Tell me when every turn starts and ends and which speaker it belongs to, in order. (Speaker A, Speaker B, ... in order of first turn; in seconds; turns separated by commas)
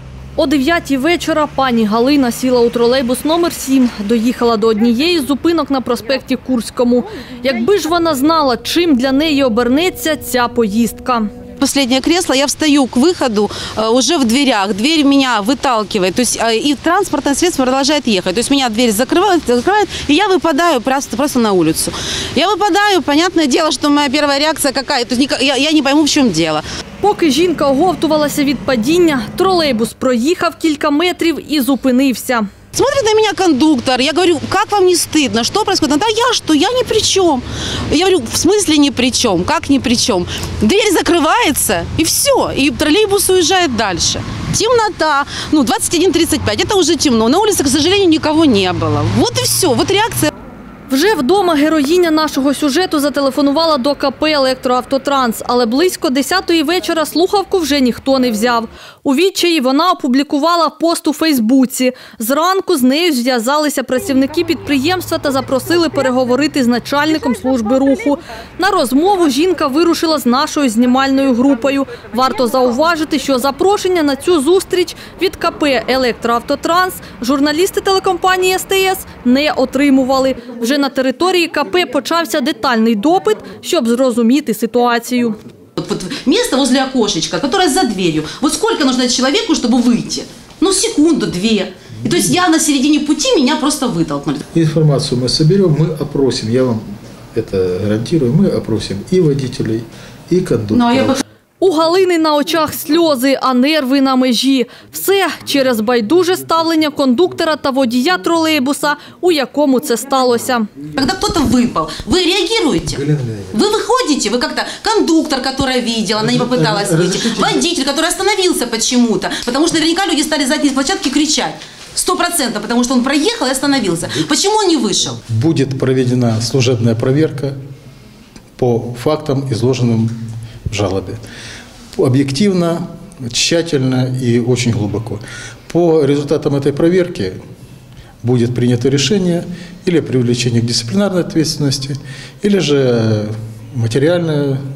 Speaker A: 0.4-11.3, Speaker B: 11.6-26.6, Speaker A: 27.0-32.5, Speaker B: 32.7-50.3, Speaker A: 50.9-85.4, Speaker B: 85.8-94.4, Speaker C: 94.5-101.2, Speaker B: 100.7-101.2, Speaker A: 101.6-110.7, Speaker B: 110.9-125.2, Speaker C: 112.9-113.5, Speaker C: 116.2-117.6, Speaker C: 125.3-127.6, Speaker C: 128.6-130.1, Speaker C: 130.7-131.2, Speaker C: 132.0-137.3, Speaker C: 138.2-144.6